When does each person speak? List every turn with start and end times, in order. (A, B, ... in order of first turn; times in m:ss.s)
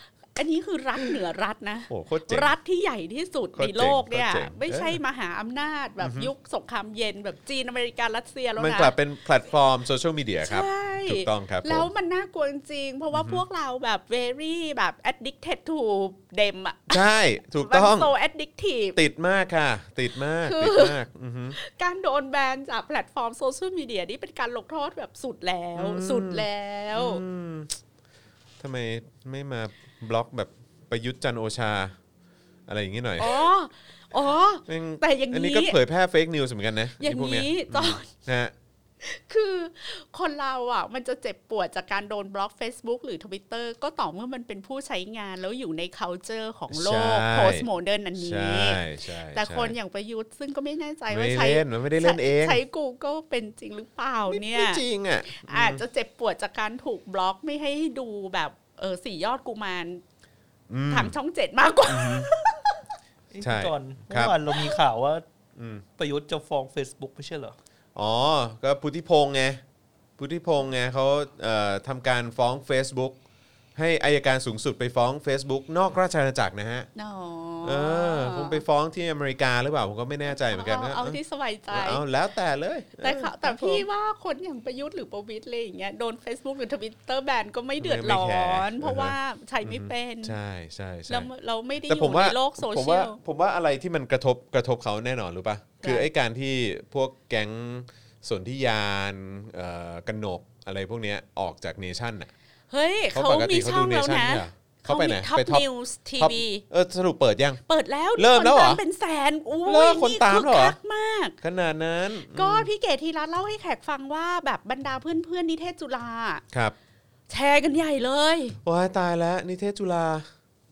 0:00.4-0:08.9 A
0:01.9-0:02.5 B
0:03.6-0:05.0 B
0:06.0-0:06.3 B
0:08.6-0:11.9 B
0:10.4-0:19.0 A
0:13.1-0:13.4 B
0:16.9-0:18.1 B
0:19.0-0:21.6 B
0:20.4-0:21.0 A
0:21.6-0:27.2 A
0:25.8-0:27.8 B
0:28.6-0:32.0 B
0:32.7-0:33.5 B
0:33.2-0:35.8 A
0:34.7-0:38.5 B
0:37.0-0:38.1 A
0:39.0-0:48.8 A
0:46.7-0:47.7 B
0:48.2-0:49.8 B
0:49.3-1:00.0 A
0:51.1-0:52.6 B
0:54.3-0:55.8 B
1:00.7-1:01.2 B
1:00.9-1:02.8 A
1:01.9-1:02.3 B
1:03.3-1:05.2 C
1:03.4-1:04.4 B
1:05.6-1:05.8 B
1:06.0-1:07.6 C
1:08.0-1:09.6 B
1:10.2-1:13.2 B
1:13.8-1:16.9 B
1:17.0-1:18.6 A
1:17.6-1:21.2 B
1:20.3-1:22.0 A
1:21.7-1:23.9 B
1:23.0-1:30.4 A
1:27.8-1:31.3 B
1:31.1-1:33.2 A
1:31.8-1:42.3 B
1:35.8-1:36.1 A
1:42.7-1:46.6 A
1:43.1-1:45.6 B
1:46.2-1:47.6 B
1:47.7-1:51.4 A
1:48.2-1:48.8 B
1:49.7-1:50.8 B
1:51.4-1:52.7 B
1:52.3-1:56.4 A
1:57.3-1:58.6 A
1:58.6-2:00.3 B